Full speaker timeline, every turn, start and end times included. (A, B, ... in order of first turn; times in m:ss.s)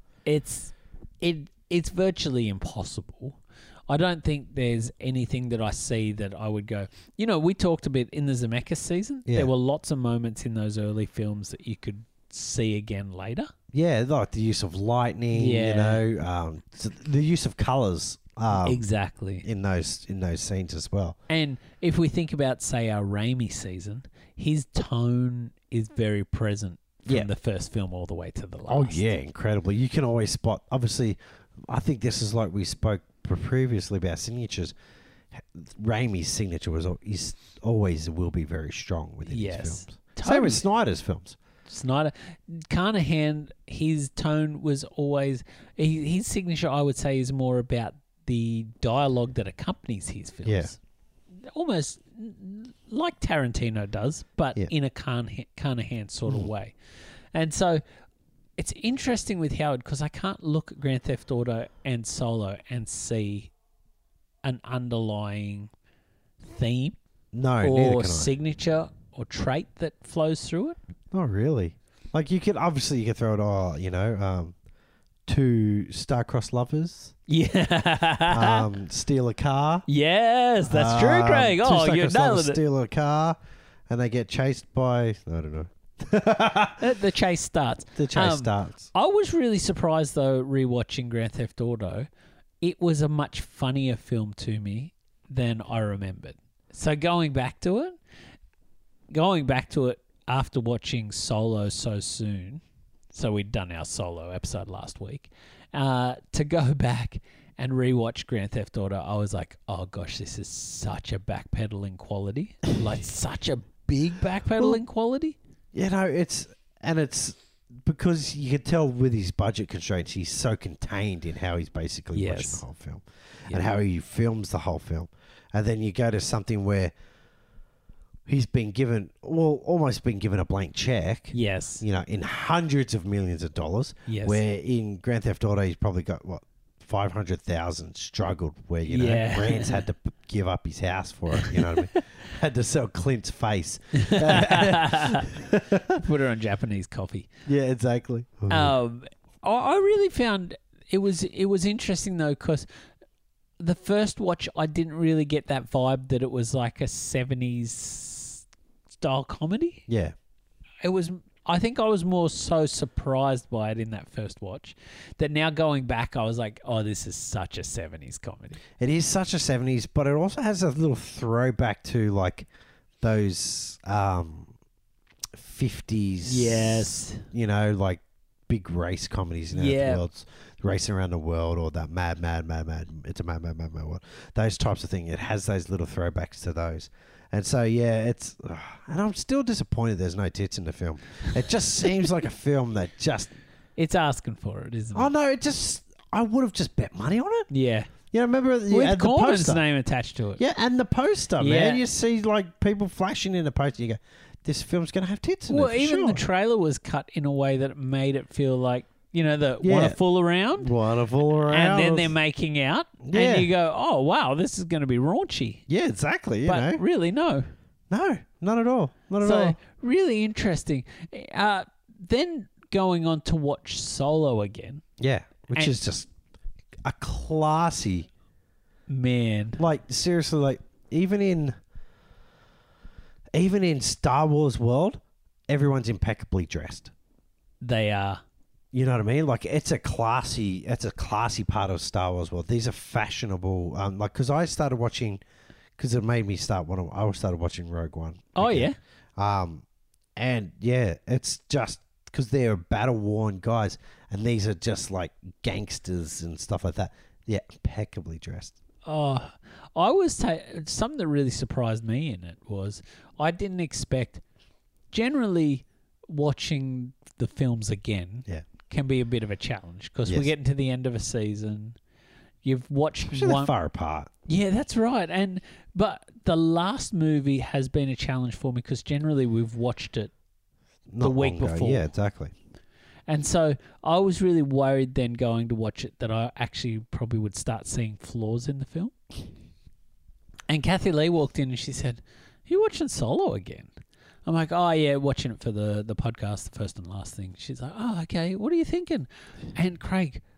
0:00.2-0:03.4 A
0:03.9-0:13.5 A
0:13.7-0:18.8 B
0:15.3-0:16.0 A
0:18.5-0:19.4 A
0:19.4-0:21.2 B
0:21.3-0:29.0 A
0:28.7-0:34.7 B
0:35.3-0:41.4 B
0:39.3-0:40.6 A
0:41.6-0:50.8 A
0:50.4-0:50.7 B
0:51.4-0:56.8 A
0:57.3-0:57.8 A
0:58.6-1:03.5 A
1:04.4-1:05.7 A
1:06.4-1:07.0 A
1:07.3-1:08.3 B
1:07.6-1:10.8 A
1:11.1-1:14.5 B
1:15.3-1:17.1 B
1:17.3-1:18.6 A
1:18.3-1:19.8 B
1:19.9-1:22.6 A
1:20.7-1:23.4 B
1:23.9-1:26.8 B
1:26.8-1:32.1 A
1:28.0-1:28.9 B
1:32.6-1:38.0 A
1:39.1-1:55.4 A
1:55.7-2:06.9 B
2:02.1-2:02.6 A
2:08.3-2:26.0 B
2:11.3-2:11.8 A
2:14.1-2:14.4 A
2:18.8-2:19.8 A
2:21.3-2:22.0 A
2:23.9-2:25.3 A
2:25.9-2:27.3 A
2:27.4-2:28.7 B
2:28.5-2:32.6 A
2:33.6-2:38.4 A
2:39.0-2:39.9 A
2:39.9-2:40.1 B
2:40.8-2:48.6 A
2:48.8-2:52.5 B
2:53.0-2:54.5 B
2:55.3-3:13.3 B
2:56.2-2:57.3 A
2:59.5-3:00.0 A
3:13.8-3:15.1 A
3:14.9-3:17.5 B
3:17.5-3:17.9 A
3:18.1-3:19.6 B
3:18.7-3:20.4 A
3:20.4-3:26.2 B
3:21.4-3:21.8 A
3:25.5-3:30.7 A
3:29.6-3:30.0 B
3:30.6-3:32.1 B
3:31.4-3:35.6 A
3:33.0-3:33.5 B
3:35.7-3:36.8 B
3:36.4-3:37.5 A
3:37.9-3:39.6 B
3:39.2-3:44.8 A
3:45.0-3:46.1 B
3:46.8-3:48.1 B
3:48.9-3:49.6 A
3:49.6-3:51.5 B
3:53.3-3:56.9 B
3:57.6-3:58.2 A
3:58.7-4:05.2 B
4:05.8-4:09.6 B
4:08.4-4:08.8 A
4:10.2-4:18.6 B
4:18.8-4:24.2 A
4:24.9-4:31.8 A
4:32.4-4:33.5 A
4:33.1-4:34.1 B
4:34.2-4:40.1 A
4:40.9-4:42.3 B
4:41.0-4:41.9 A
4:43.1-4:48.9 A
4:50.5-4:53.7 A
4:54.2-5:00.2 A